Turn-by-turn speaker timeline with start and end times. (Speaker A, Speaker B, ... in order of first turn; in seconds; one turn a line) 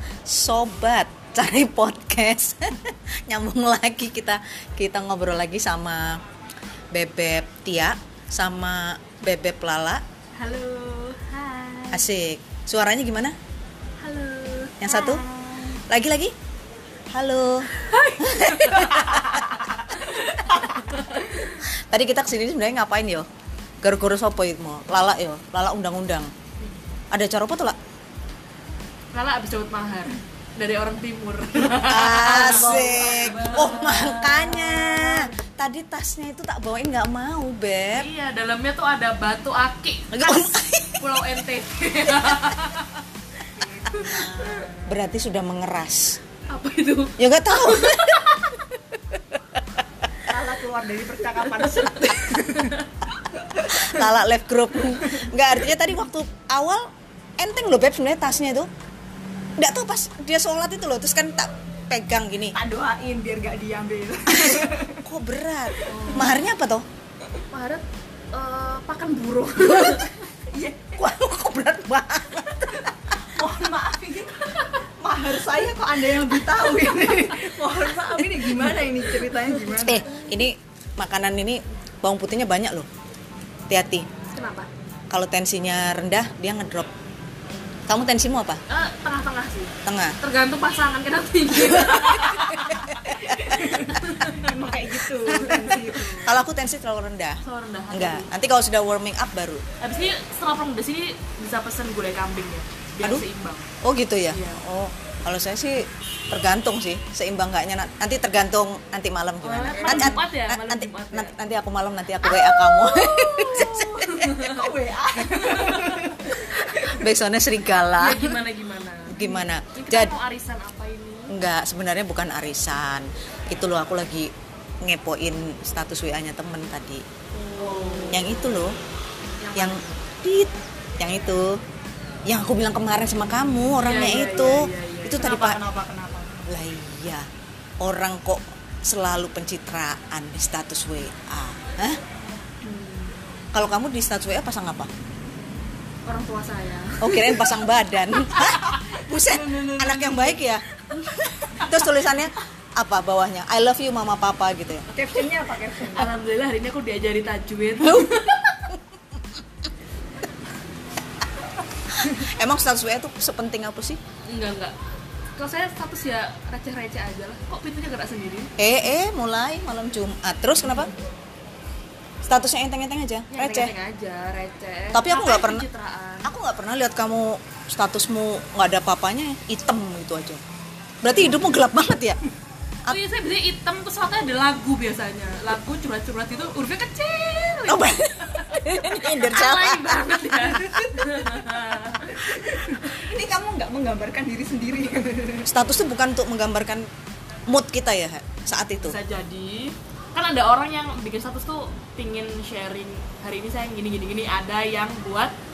Speaker A: 0.2-6.2
Speaker A: 6.9-10.0
Speaker B: 10.4-12.1
Speaker A: 11.9-13.3
Speaker B: 14.0-15.7
Speaker A: 14.8-15.2
Speaker A: 15.9-16.3
Speaker A: 17.1-19.3
Speaker B: 17.7-21.5
Speaker A: 21.9-23.3
Speaker A: 23.8-26.3
Speaker A: 27.1-27.8
Speaker B: 29.1-35.3
Speaker A: 31.8-38.1
Speaker C: 32.3-33.9
Speaker B: 37.9-43.0
Speaker A: 40.1-41.3
Speaker C: 43.5-44.9
Speaker B: 44.0-44.4
Speaker A: 44.9-46.2
Speaker B: 46.5-48.6
Speaker A: 47.2-48.2
Speaker C: 50.3-52.7
Speaker B: 51.9-52.9
Speaker C: 53.4-54.0
Speaker A: 53.7-58.7
Speaker A: 59.6-62.6
Speaker C: 62.5-65.0
Speaker A: 64.5-66.8
Speaker C: 65.8-66.2
Speaker B: 65.9-66.3
Speaker B: 67.5-70.2
Speaker C: 70.5-71.1
Speaker A: 71.0-72.9
Speaker C: 73.3-80.1
Speaker A: 79.8-82.9
Speaker A: 83.7-84.1
Speaker B: 84.3-84.7
Speaker A: 85.1-86.9
Speaker A: 87.9-88.6
Speaker B: 88.7-94.6
Speaker A: 89.8-90.2
Speaker C: 93.5-96.3
Speaker A: 95.3-97.4
Speaker B: 95.4-95.8
Speaker B: 97.4-98.3
Speaker A: 97.9-99.6
Speaker B: 99.8-103.7
Speaker A: 103.8-114.2
Speaker B: 104.3-104.6
Speaker B: 109.4-111.3
Speaker C: 109.8-110.2
Speaker B: 113.1-116.1
Speaker C: 114.3-117.0
Speaker A: 116.9-118.4
Speaker B: 118.0-121.3
Speaker A: 119.1-120.1
Speaker A: 121.3-124.3
Speaker A: 124.8-127.0
Speaker B: 127.3-128.5
Speaker C: 127.6-128.2
Speaker A: 128.1-128.8
Speaker B: 129.4-130.1
Speaker A: 129.5-131.6
Speaker A: 132.3-135.6
Speaker B: 133.8-135.3
Speaker C: 135.1-136.5
Speaker A: 136.5-137.2
Speaker A: 137.8-142.0
Speaker B: 142.6-143.1
Speaker A: 143.5-144.9
Speaker B: 146.1-147.5
Speaker A: 147.0-150.6
Speaker C: 148.8-150.4
Speaker B: 150.9-151.9
Speaker A: 151.6-154.9
Speaker C: 154.9-156.1
Speaker B: 155.9-158.6
Speaker A: 157.8-158.2
Speaker A: 161.9-164.0
Speaker B: 164.3-164.7
Speaker B: 165.4-168.5
Speaker A: 168.6-170.9
Speaker A: 172.2-173.7
Speaker B: 173.3-176.3
Speaker A: 174.9-175.7
Speaker A: 176.2-180.4
Speaker A: 181.0-182.2
Speaker B: 182.9-192.7
Speaker A: 187.7-190.8
Speaker C: 192.1-195.5
Speaker A: 195.4-196.9
Speaker A: 197.5-199.0
Speaker B: 198.8-205.3